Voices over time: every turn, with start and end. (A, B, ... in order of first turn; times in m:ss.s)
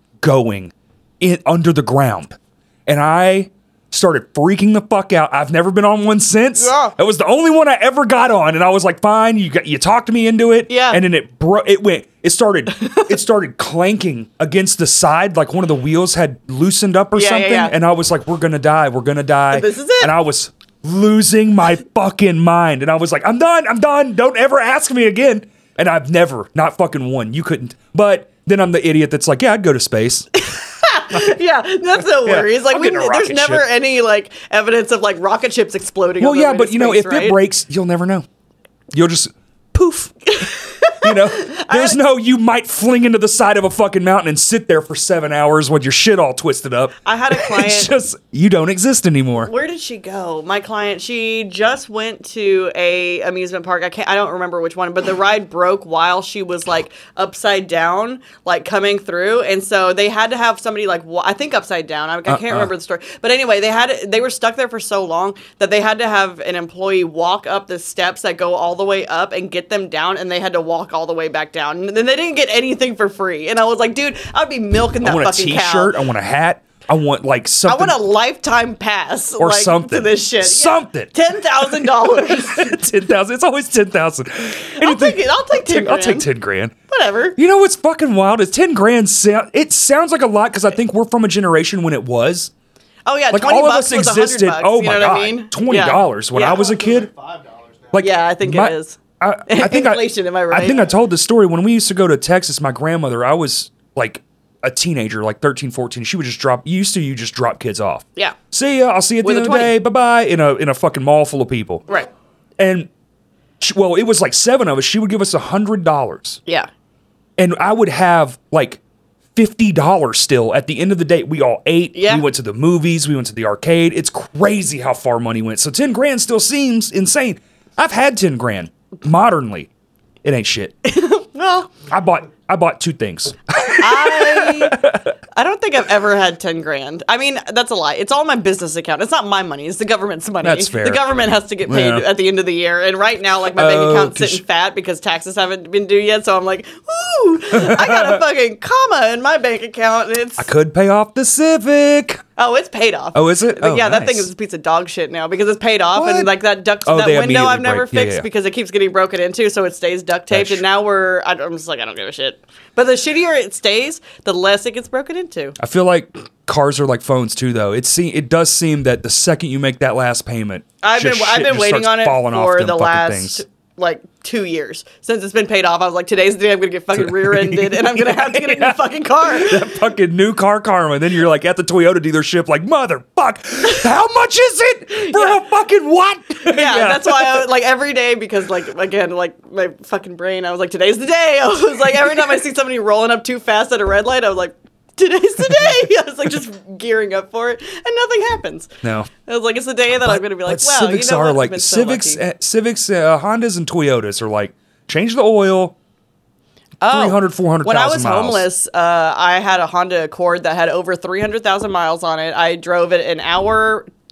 0:00.2-0:30.3 A
0:06.6-0:06.9 B
0:10.7-0:11.0 B
0:12.8-0:13.1 B
0:17.1-0:17.7 B
0:19.5-0:20.1 B
0:30.5-0:37.4 B
0:32.0-0:33.6 A
0:36.2-0:38.2 A
0:38.9-0:49.5 A
0:40.3-0:42.0 B
0:47.0-0:47.9 B
0:49.4-1:15.9 B
1:02.3-1:02.7 A
1:15.0-1:18.0 A
1:17.6-1:22.8 B
1:19.4-1:26.7 A
1:24.7-1:26.3 B
1:26.9-1:27.4 B
1:27.4-1:32.5 A
1:33.0-1:36.7 B
1:33.3-1:37.1 A
1:36.3-1:38.1 C
1:37.9-1:51.8 A
1:38.0-1:40.9 B
1:40.6-1:40.9 C
1:49.2-1:49.7 B
1:52.6-1:52.9 A
1:53.6-1:56.4 A
1:57.4-1:58.8 A
1:59.3-2:09.7 A
2:01.9-2:02.2 B
2:10.2-2:10.7 A
2:10.8-2:11.7 B
2:11.9-2:15.1 A
2:13.8-2:14.8 B
2:15.3-2:30.5 B
2:20.4-2:21.0 A
2:21.6-2:22.1 A
2:23.6-2:24.4 A
2:27.5-2:28.2 A
2:30.4-2:32.2 A
2:32.4-2:45.6 B
2:33.1-2:34.3 A
2:35.9-2:36.3 A
2:36.8-2:38.2 A
2:40.3-2:40.6 A
2:45.6-2:53.4 A
2:50.8-2:59.8 B
2:56.9-3:07.5 A
3:05.0-3:05.4 B
3:06.4-3:18.7 B
3:18.8-3:19.1 A
3:19.2-3:22.2 B
3:20.0-3:25.8 A
3:26.8-3:33.9 B
3:26.9-3:28.4 A